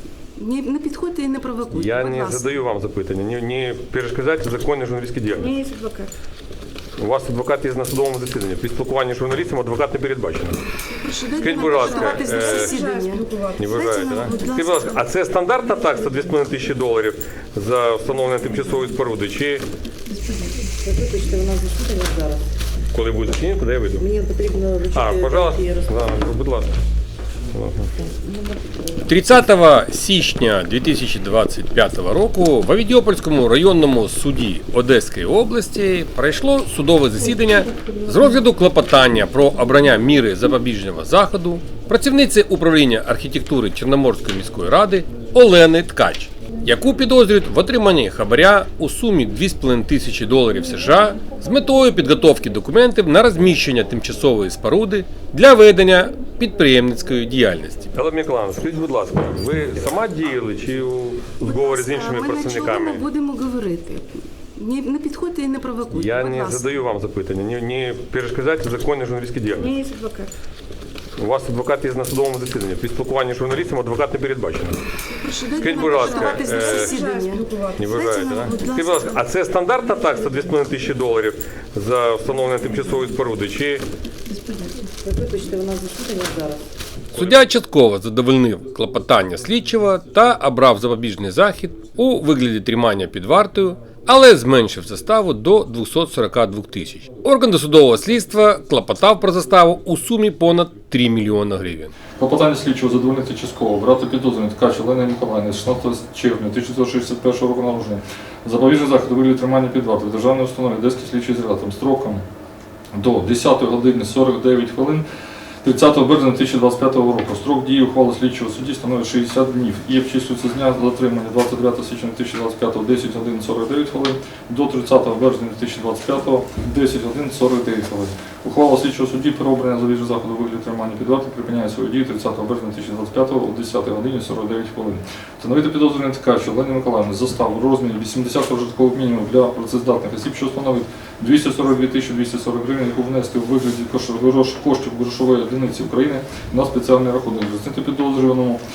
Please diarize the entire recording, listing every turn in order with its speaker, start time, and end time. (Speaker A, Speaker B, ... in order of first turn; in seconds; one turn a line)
Speaker A: 0.4-2.0
Speaker B: 0.4-2.4
Speaker C: 1.7-5.6
Speaker B: 5.4-6.1
Speaker C: 7.0-10.7
Speaker A: 11.0-14.9
Speaker B: 11.0-14.5
Speaker C: 11.2-12.8
Speaker C: 13.5-19.6
Speaker D: 20.7-22.4
Speaker C: 22.9-24.1
Speaker D: 24.0-26.2
Speaker C: 24.9-26.7
Speaker C: 27.5-27.9
Speaker D: 28.0-28.8
Speaker A: 29.1-57.8
Speaker C: 57.9-63.1
Speaker B: 61.8-64.0
Speaker B: 64.6-66.6
Speaker C: 65.9-69.8
Speaker B: 69.6-70.3
Speaker C: 71.2-74.9
Speaker A: 75.2-79.2
Speaker B: 75.4-78.8
Speaker C: 75.5-77.0
Speaker C: 77.8-83.8
Speaker D: 85.0-86.7
Speaker C: 87.1-87.4
Speaker A: 87.2-101.9
Speaker E: 102.2-112.2
Speaker E: 113.0-115.0
Speaker E: 115.6-148.6